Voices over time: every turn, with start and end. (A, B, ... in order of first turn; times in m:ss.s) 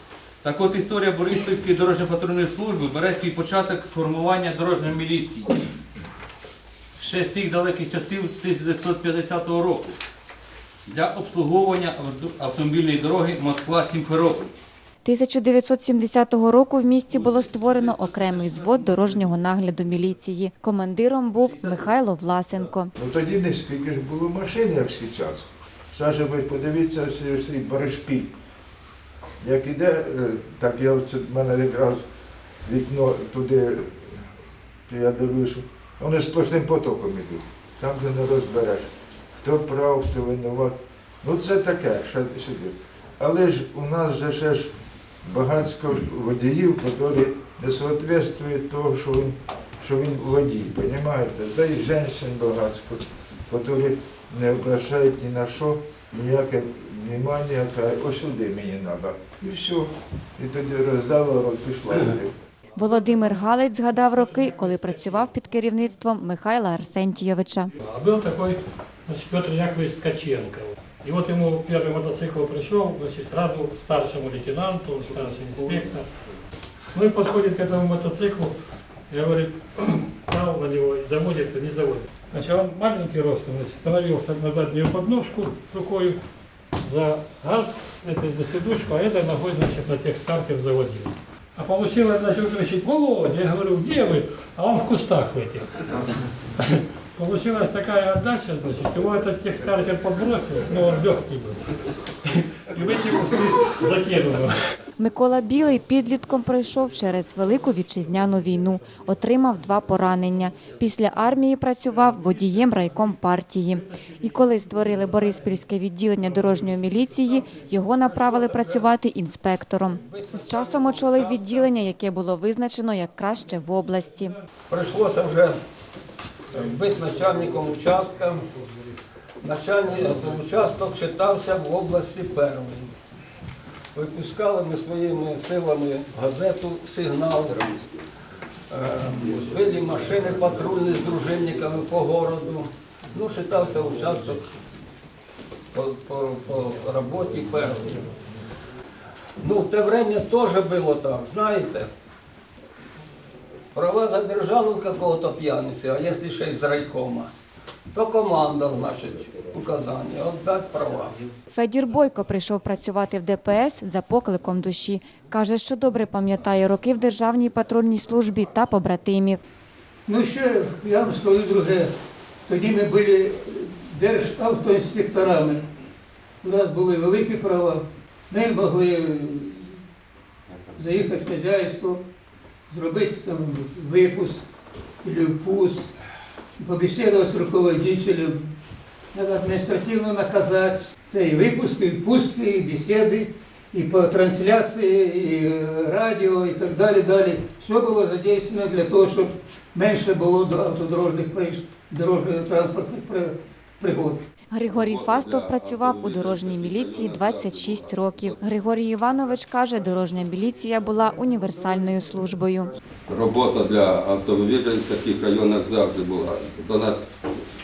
0:00.4-0:05.5 A
0:07.0-0:09.9 A
0:10.9-0:14.5 A
0:15.0-0:22.9 B
0:18.0-0:18.3 A
0:23.0-0:28.3 C
0:29.4-0:32.0 C
0:32.6-0:34.2 C
0:34.9-0:38.9 C
0:39.4-0:44.7 C
0:45.2-1:02.3 C
1:02.8-1:07.7 B
1:07.8-1:16.1 D
1:16.9-1:18.6 D
1:19.1-1:26.2 D
1:26.8-1:35.8 D
1:36.6-1:41.8 D
1:42.3-1:44.6 D
1:45.0-2:04.3 B
2:00.0-2:01.7 E
2:04.7-2:05.6 E
2:06.5-2:08.4 E
2:09.4-2:12.9 E
2:14.0-2:17.8 E
2:18.7-2:24.6 E
2:25.7-2:28.1 E
2:29.4-2:31.9 E
2:33.7-2:37.3 E
2:37.9-2:41.1 E
2:41.5-2:49.4 B
2:50.1-2:52.0 F
2:52.5-2:55.7 F
2:56.4-2:59.8 F
3:00.8-3:02.1 F
3:02.7-3:04.5 F
3:05.0-3:05.9 F
3:06.6-3:08.5 F
3:09.1-3:24.2 F
3:24.5-3:32.7 B
3:24.7-3:28.4 G
3:33.1-3:37.1 G